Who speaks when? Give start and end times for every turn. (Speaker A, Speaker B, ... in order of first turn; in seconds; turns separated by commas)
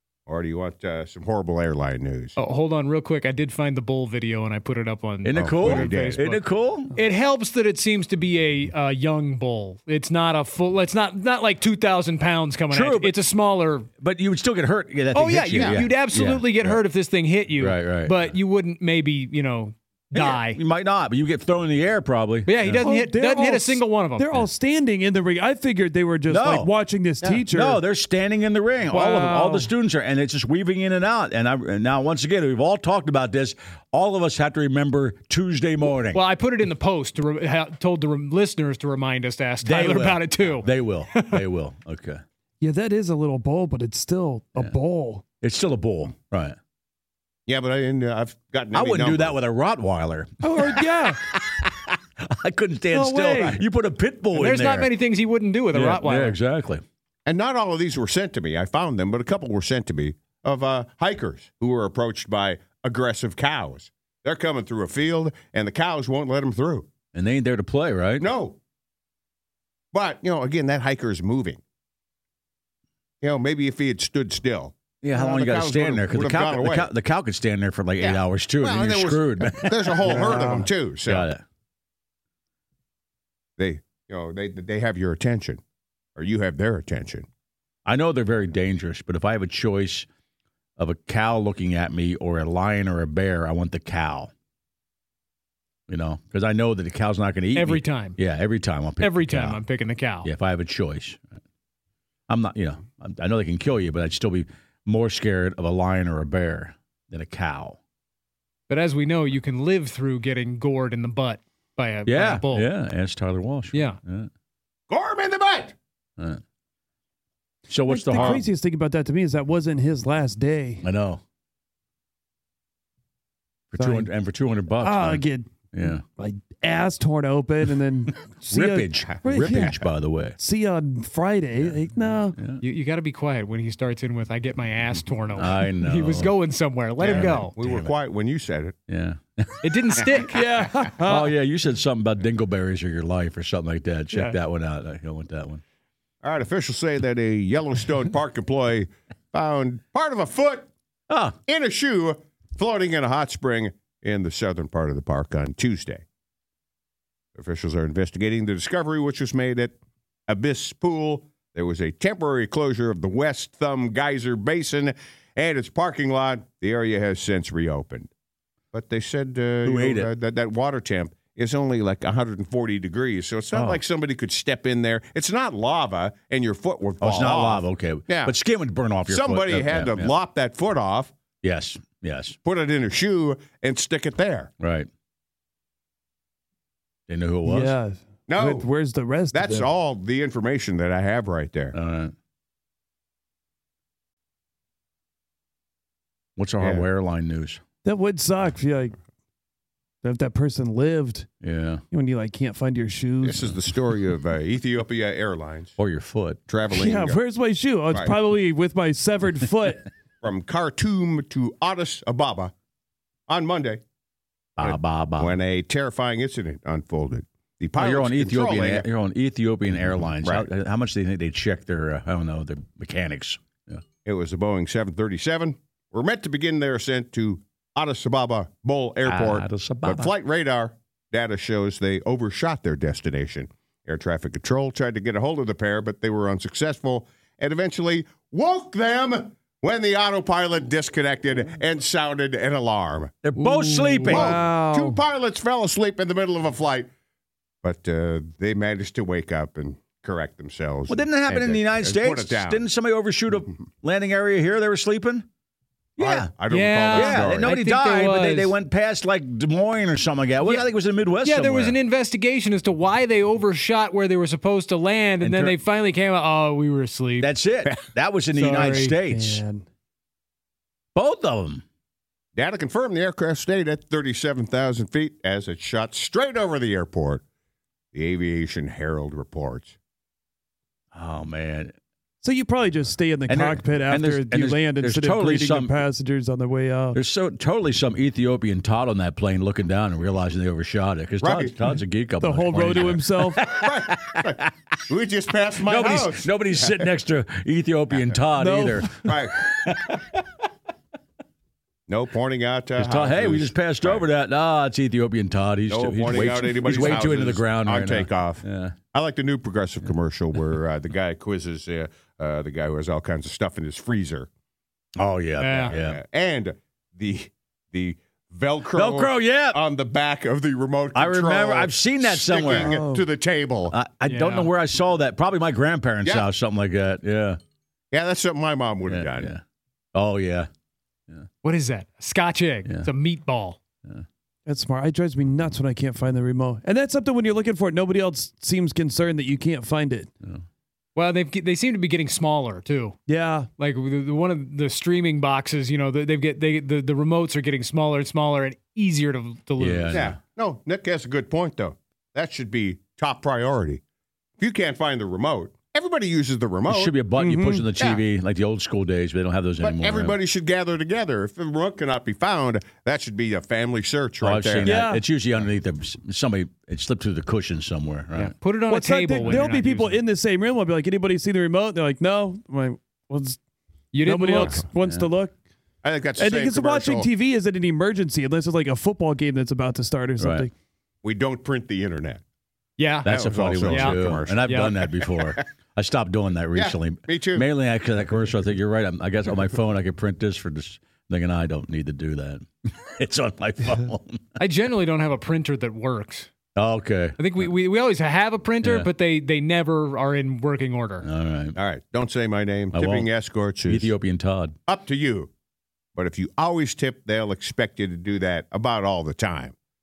Speaker A: 0.3-2.4, Speaker B: 2.4-6.4, Speaker C: 5.2-6.9, Speaker A: 5.3-6.3, Speaker B: 6.9-13.9, Speaker C: 12.7-13.2, Speaker C: 14.0-16.8, Speaker B: 15.1-20.6, Speaker A: 15.5-15.9, Speaker C: 17.6-18.3, Speaker C: 20.1-22.9, Speaker B: 22.4-24.3, Speaker D: 22.8-27.8, Speaker C: 26.3-26.7, Speaker C: 27.4-36.2, Speaker D: 28.9-29.7, Speaker B: 36.1-41.4, Speaker C: 39.6-42.2, Speaker D: 42.6-45.2, Speaker C: 45.4-46.5, Speaker A: 47.5-49.4, Speaker C: 48.7-50.8, Speaker D: 50.4-51.2, Speaker C: 52.2-54.9, Speaker D: 52.9-53.6, Speaker B: 54.3-56.4, Speaker C: 55.7-56.8, Speaker A: 57.2-66.9, Speaker C: 67.1-68.3, Speaker A: 68.2-68.6, Speaker A: 69.9-71.6, Speaker A: 73.2-76.9, Speaker C: 75.0-80.3, Speaker A: 78.0-81.3, Speaker D: 80.0-80.7, Speaker C: 81.0-81.4, Speaker A: 83.6-85.6, Speaker A: 86.2-87.3, Speaker C: 87.8-90.1, Speaker C: 90.8-94.3, Speaker C: 95.9-99.6, Speaker B: 97.5-98.2, Speaker B: 99.0-100.3, Speaker C: 100.2-101.4, Speaker C: 102.3-107.8, Speaker B: 108.7-112.7, Speaker C: 112.1-114.3, Speaker B: 113.7-114.0, Speaker A: 114.9-115.8, Speaker C: 117.7-118.5, Speaker D: 117.8-120.8, Speaker C: 120.8-121.2, Speaker C: 123.7-126.0, Speaker D: 123.8-124.1, Speaker D: 124.8-129.7, Speaker C: 128.5-130.3, Speaker D: 130.4-132.4, Speaker C: 132.3-132.6, Speaker B: 132.6-137.5, Speaker C: 135.3-136.3, Speaker C: 137.0-137.9, Speaker A: 137.0-138.8, Speaker C: 138.9-140.2, Speaker B: 139.6-140.4, Speaker D: 140.2-141.3, Speaker C: 140.8-145.6, Speaker A: 146.2-150.7, Speaker C: 151.1-151.3, Speaker A: 151.5-156.0, Speaker A: 157.3-159.7, Speaker A: 160.3-168.1, Speaker A: 168.7-178.3, Speaker C: 169.6-170.1, Speaker C: 173.5-173.8, Speaker C: 177.0-180.1, Speaker A: 179.1-181.1, Speaker C: 181.4-182.3, Speaker A: 182.4-184.5, Speaker C: 184.6-184.9, Speaker C: 187.1-187.8, Speaker D: 187.4-189.7, Speaker A: 188.3-188.7, Speaker A: 189.3-191.7, Speaker C: 191.7-192.1, Speaker C: 196.4-197.6, Speaker A: 196.6-196.8, Speaker D: 197.8-199.0, Speaker D: 200.0-201.3, Speaker C: 201.4-201.8, Speaker D: 201.9-203.6, Speaker A: 203.2-205.7, Speaker C: 205.8-206.4, Speaker A: 206.5-207.2, Speaker D: 206.7-209.9, Speaker A: 210.2-212.5, Speaker A: 213.3-213.8, Speaker C: 214.6-215.4, Speaker A: 214.6-218.9, Speaker C: 217.8-223.8, Speaker A: 220.2-220.5, Speaker A: 224.0-243.2, Speaker C: 229.0-230.1, Speaker C: 243.2-244.4, Speaker D: 243.4-245.0, Speaker A: 244.1-246.9, Speaker A: 247.6-252.6, Speaker C: 250.9-255.2, Speaker C: 256.0-256.3, Speaker A: 256.0-257.6, Speaker B: 256.5-258.5, Speaker C: 256.9-261.8, Speaker B: 261.2-267.3, Speaker C: 265.2-265.6, Speaker C: 267.2-269.4, Speaker B: 268.3-269.0, Speaker D: 269.1-269.6, Speaker C: 270.9-271.6, Speaker A: 272.3-277.2, Speaker A: 277.9-279.8, Speaker C: 280.9-281.7, Speaker D: 282.2-287.0, Speaker C: 283.3-285.8, Speaker C: 286.9-294.5, Speaker A: 291.2-291.6, Speaker D: 292.2-293.5, Speaker A: 293.6-294.4, Speaker A: 294.9-296.9, Speaker C: 295.6-300.2, Speaker D: 298.4-299.1, Speaker A: 299.0-299.3, Speaker A: 301.9-304.1, Speaker C: 302.8-308.8, Speaker A: 305.7-314.3, Speaker C: 315.0-316.0, Speaker B: 315.4-315.7, Speaker A: 315.6-323.7, Speaker C: 318.7-319.6, Speaker C: 320.9-322.8, Speaker D: 322.5-323.0, Speaker C: 323.7-327.4, Speaker B: 324.0-324.5, Speaker A: 326.0-326.3, Speaker A: 327.9-329.3, Speaker C: 328.9-329.4, Speaker C: 329.9-330.5, Speaker B: 331.4-333.6, Speaker D: 334.4-340.1, Speaker B: 340.9-342.9, Speaker D: 343.1-343.5, Speaker B: 343.6-350.1, Speaker C: 349.6-350.2, Speaker A: 349.9-353.8, Speaker A: 354.4-356.9, Speaker C: 356.6-360.2, Speaker D: 357.1-357.7, Speaker A: 357.7-358.0, Speaker A: 359.6-364.8, Speaker C: 364.2-368.4, Speaker D: 364.7-365.0, Speaker B: 368.1-370.0, Speaker D: 368.7-373.4, Speaker C: 369.2-369.6, Speaker B: 373.9-374.6, Speaker D: 374.0-375.3, Speaker C: 374.4-375.1, Speaker A: 375.8-377.1, Speaker D: 376.1-380.5, Speaker C: 380.2-380.5, Speaker A: 381.0-382.2, Speaker B: 382.8-384.7, Speaker C: 383.0-394.4, Speaker A: 383.0-385.4, Speaker A: 386.5-387.5, Speaker B: 394.4-396.3, Speaker C: 396.6-397.2, Speaker B: 397.2-401.1, Speaker C: 398.6-398.9, Speaker C: 401.0-401.6, Speaker A: 401.5-403.9, Speaker C: 402.7-403.1, Speaker C: 403.6-404.5, Speaker A: 404.7-405.3, Speaker A: 405.9-409.5